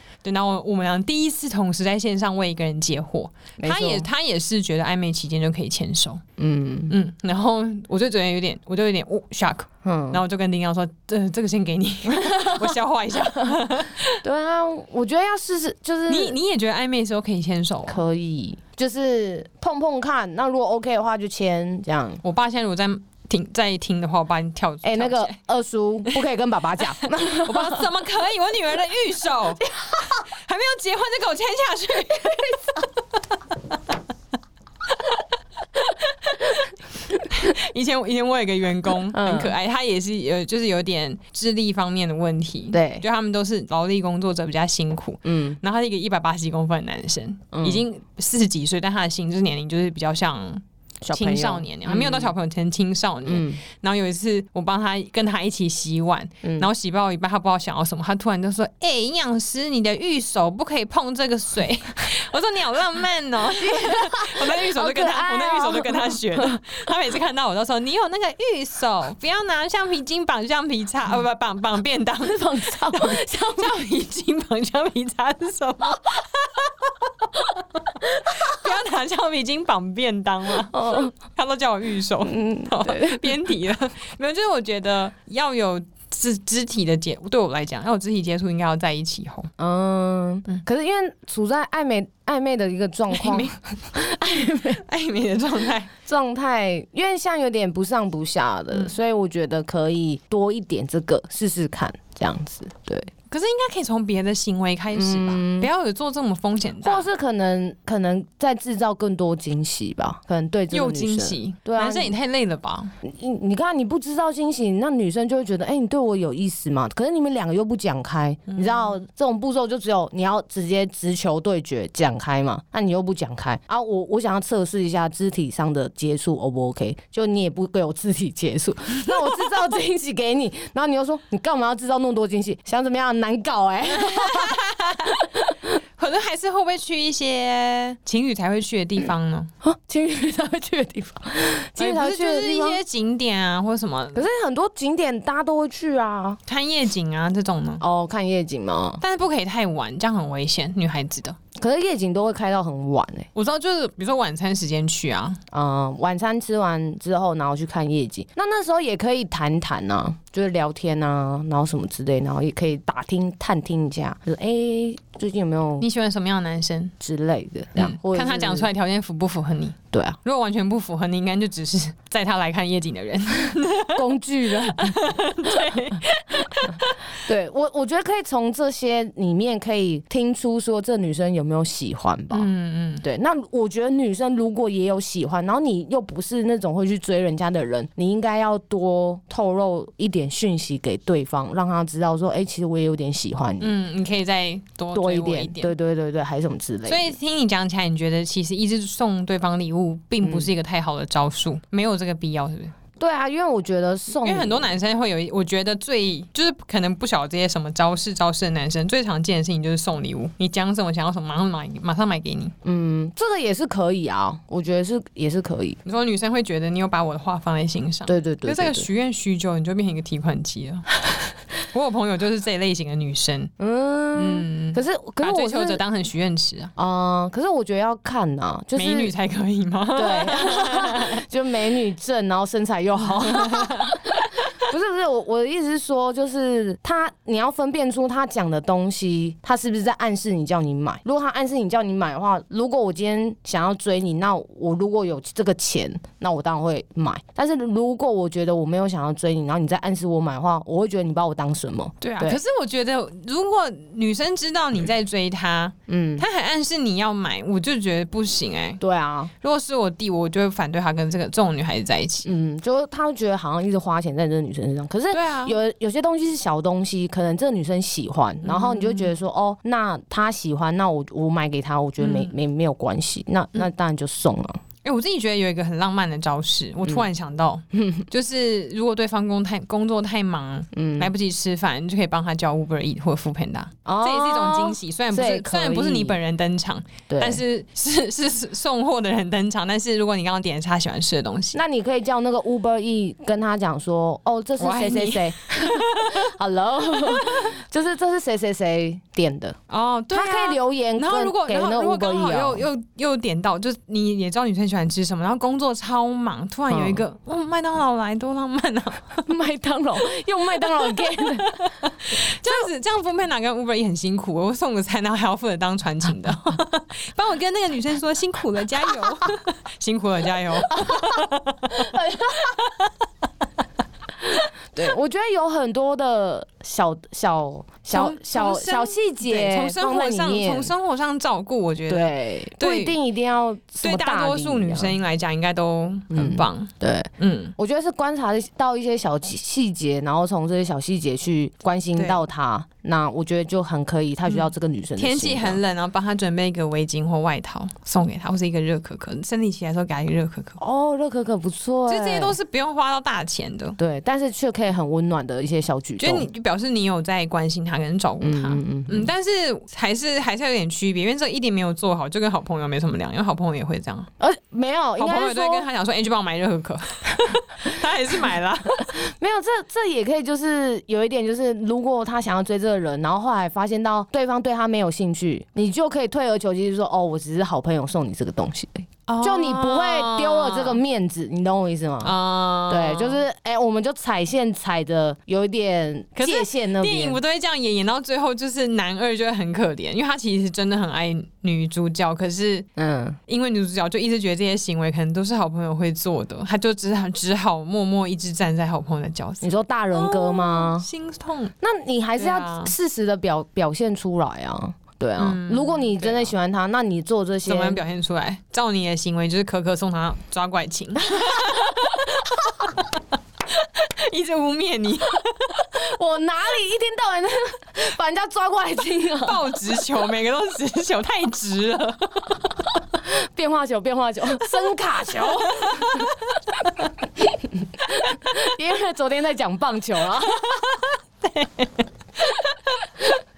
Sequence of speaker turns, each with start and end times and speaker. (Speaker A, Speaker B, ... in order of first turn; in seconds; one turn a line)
Speaker A: 0.2-6.2
Speaker B: 3.6-4.1
Speaker B: 6.4-6.9
Speaker A: 6.9-14.2
Speaker B: 9.8-10.2
Speaker B: 12.1-12.8
Speaker B: 14.2-16.4
Speaker A: 16.1-18.0
Speaker B: 17.9-22.2
Speaker A: 22.2-25.4
Speaker B: 24.8-27.9
Speaker A: 27.0-32.7
Speaker A: 35.9-89.5
Speaker B: 39.1-39.5
Speaker B: 42.7-43.0
Speaker B: 45.2-45.6
Speaker B: 47.5-47.8
Speaker B: 51.0-52.3
Speaker B: 53.2-53.6
Speaker B: 56.4-56.7
Speaker B: 63.6-66.6
Speaker B: 72.2-73.8
Speaker B: 80.7-81.1
Speaker B: 82.2-83.3
Speaker B: 89.6-94.8
Speaker A: 93.1-93.5
Speaker A: 94.8-95.9
Speaker B: 96.0-103.1
Speaker A: 103.3-107.1
Speaker B: 104.9-105.7
Speaker B: 106.8-112.1
Speaker A: 110.7-112.9
Speaker B: 113.0-135.7
Speaker A: 118.5-118.9
Speaker A: 133.9-135.2
Speaker A: 136.0-139.5
Speaker B: 139.6-142.8
Speaker A: 141.8-144.3
Speaker B: 144.1-146.4
Speaker A: 146.5-147.8
Speaker B: 147.8-149.0
Speaker A: 149.0-151.4
Speaker B: 151.5-153.3
Speaker A: 153.3-155.4
Speaker B: 155.5-165.8
Speaker A: 165.8-166.9
Speaker B: 167.0-168.7
Speaker A: 167.8-177.0
Speaker B: 169.9-170.2
Speaker B: 173.9-175.8
Speaker B: 176.6-182.5
Speaker A: 182.3-183.0
Speaker B: 183.0-193.7
Speaker A: 193.6-195.7
Speaker B: 194.9-197.1
Speaker A: 196.8-202.7
Speaker B: 200.2-200.5
Speaker B: 203.0-204.7
Speaker A: 204.2-212.5
Speaker B: 212.6-215.8
Speaker A: 215.8-220.9
Speaker B: 218.1-218.9
Speaker A: 221.7-223.5
Speaker B: 223.6-225.8
Speaker A: 224.1-226.7
Speaker B: 226.8-229.1
Speaker A: 228.8-231.2
Speaker B: 229.9-252.4
Speaker A: 233.2-234.5
Speaker A: 252.0-258.8
Speaker B: 255.9-256.2
Speaker B: 258.8-259.3
Speaker A: 259.4-262.3
Speaker B: 262.2-274.6
Speaker A: 265.1-265.6
Speaker A: 268.4-269.1
Speaker A: 272.0-272.3
Speaker A: 274.8-291.6
Speaker B: 277.7-278.1
Speaker B: 280.7-281.1
Speaker B: 283.9-286.2
Speaker B: 287.1-287.4
Speaker B: 291.5-299.6
Speaker A: 294.6-296.3
Speaker A: 296.9-297.5
Speaker A: 299.7-309.3
Speaker B: 300.1-302.6
Speaker B: 306.7-307.0
Speaker B: 309.2-311.7
Speaker A: 310.8-321.9
Speaker B: 320.7-322.6
Speaker B: 324.2-330.7
Speaker A: 327.9-333.0
Speaker B: 331.9-334.9
Speaker A: 333.8-337.5
Speaker B: 336.1-345.6
Speaker A: 341.9-342.2
Speaker A: 344.3-350.6
Speaker B: 350.6-352.4
Speaker A: 351.9-353.8
Speaker B: 353.8-356.3
Speaker A: 356.0-364.1
Speaker B: 358.2-359.1
Speaker B: 364.2-365.6
Speaker A: 365.0-368.9
Speaker B: 368.9-382.1
Speaker A: 379.1-380.8
Speaker A: 382.0-383.2
Speaker B: 382.7-387.2
Speaker A: 386.2-392.7
Speaker B: 392.8-393.2
Speaker A: 393.3-401.5
Speaker B: 399.4-400.9
Speaker B: 401.6-407.8
Speaker A: 402.2-402.7
Speaker A: 405.2-406.3
Speaker A: 407.4-412.4
Speaker B: 411.1-412.3
Speaker A: 413.5-415.7
Speaker B: 415.7-419.4
Speaker A: 419.2-422.4
Speaker B: 423.0-426.2
Speaker A: 425.4-426.4
Speaker B: 427.2-430.5
Speaker A: 427.9-428.3
Speaker A: 430.3-432.9